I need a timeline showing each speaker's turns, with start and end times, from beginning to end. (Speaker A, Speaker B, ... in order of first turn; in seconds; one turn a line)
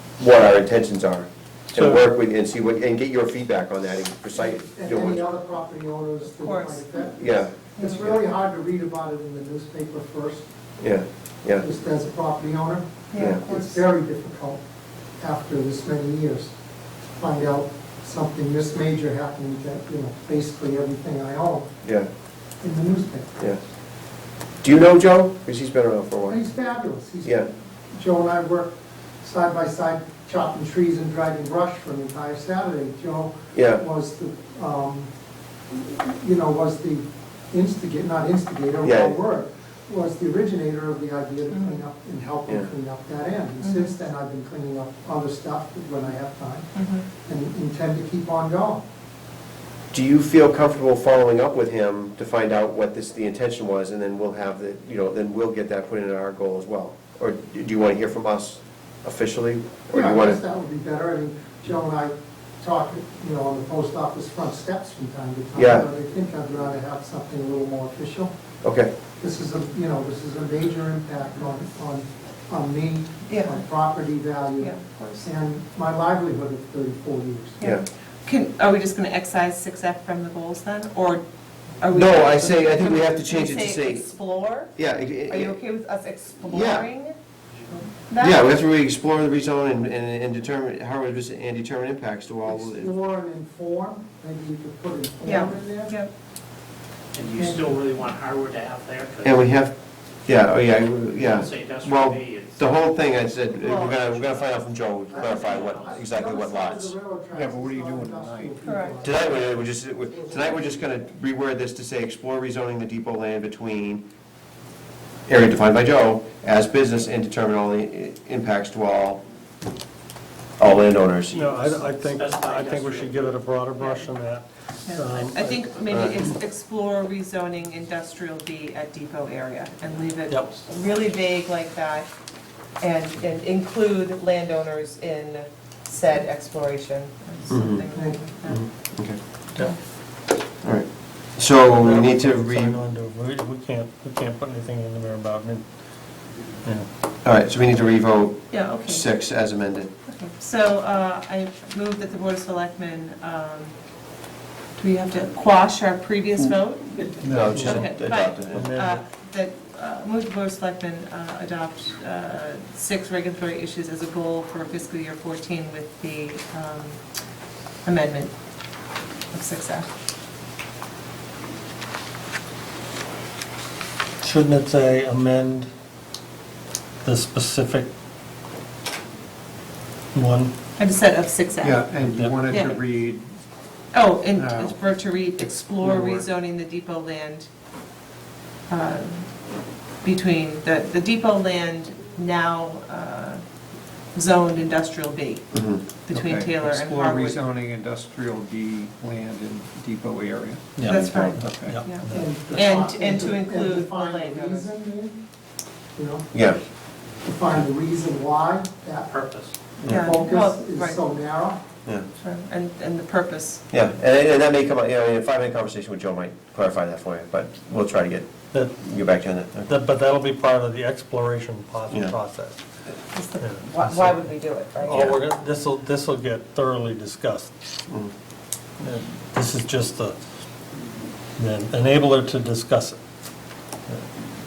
Speaker A: 0.2-5.2
Speaker B: 1.7-2.0
Speaker C: 4.4-10.4
Speaker D: 6.2-7.1
Speaker A: 7.2-8.2
Speaker D: 7.8-8.0
Speaker A: 10.8-11.6
Speaker C: 11.6-12.9
Speaker D: 13.1-13.8
Speaker A: 13.2-13.5
Speaker C: 13.4-14.6
Speaker C: 15.2-16.5
Speaker C: 17.2-21.7
Speaker A: 21.8-22.1
Speaker C: 22.6-23.3
Speaker A: 24.6-26.4
Speaker C: 26.3-35.1
Speaker A: 27.2-27.5
Speaker A: 33.5-33.8
Speaker C: 35.7-46.7
Speaker A: 38.8-39.2
Speaker D: 41.5-41.8
Speaker D: 43.6-43.9
Speaker D: 46.7-47.0
Speaker C: 47.2-48.8
Speaker A: 49.9-60.4
Speaker C: 59.9-68.3
Speaker A: 65.5-65.9
Speaker A: 68.6-68.9
Speaker C: 69.2-77.6
Speaker D: 73.3-73.6
Speaker D: 74.6-75.3
Speaker D: 77.6-81.2
Speaker D: 81.8-84.7
Speaker A: 81.9-84.1
Speaker A: 84.7-85.6
Speaker D: 85.3-87.2
Speaker A: 86.4-86.9
Speaker D: 88.0-88.4
Speaker A: 88.2-92.9
Speaker C: 92.5-96.0
Speaker D: 95.2-96.1
Speaker E: 97.1-99.5
Speaker C: 97.3-97.8
Speaker A: 99.2-99.7
Speaker A: 100.2-106.9
Speaker E: 101.1-102.8
Speaker D: 103.6-103.9
Speaker E: 103.7-106.0
Speaker C: 105.1-109.4
Speaker F: 107.3-108.7
Speaker D: 108.6-109.0
Speaker A: 109.0-114.1
Speaker C: 110.2-110.6
Speaker A: 115.3-119.2
Speaker A: 120.6-121.4
Speaker E: 121.3-124.1
Speaker B: 121.3-125.6
Speaker D: 124.8-132.1
Speaker A: 125.9-126.2
Speaker D: 132.8-138.6
Speaker A: 137.5-137.8
Speaker A: 138.5-139.2
Speaker A: 140.6-142.8
Speaker B: 141.8-145.6
Speaker A: 147.2-149.9
Speaker D: 148.5-149.1
Speaker D: 150.1-153.7
Speaker D: 154.8-167.0
Speaker A: 157.2-158.7
Speaker F: 157.2-157.7
Speaker B: 157.5-157.9
Speaker B: 158.5-159.0
Speaker D: 167.8-168.3
Speaker D: 169.3-169.9
Speaker B: 174.2-175.7
Speaker B: 177.0-177.9
Speaker B: 180.1-180.5
Speaker D: 180.8-181.9
Speaker F: 181.6-183.2
Speaker B: 182.1-182.4
Speaker D: 182.5-182.8
Speaker D: 183.9-187.5
Speaker F: 184.3-186.3
Speaker D: 188.7-189.3
Speaker D: 190.0-193.4
Speaker D: 194.1-195.5
Speaker A: 195.5-195.8
Speaker D: 196.1-197.5
Speaker F: 196.1-201.8
Speaker B: 200.8-202.4
Speaker D: 200.8-204.7
Speaker A: 201.0-201.3
Speaker C: 202.0-205.2
Speaker C: 205.9-206.3
Speaker A: 206.3-206.6
Speaker C: 207.2-211.6
Speaker E: 209.1-209.5
Speaker A: 209.8-210.1
Speaker D: 209.8-211.2
Speaker D: 212.2-213.6
Speaker A: 213.7-219.7
Speaker B: 219.7-222.6
Speaker A: 221.9-222.1
Speaker D: 223.0-225.2
Speaker B: 223.4-224.2
Speaker B: 224.8-227.5
Speaker B: 228.8-230.2
Speaker B: 231.4-233.0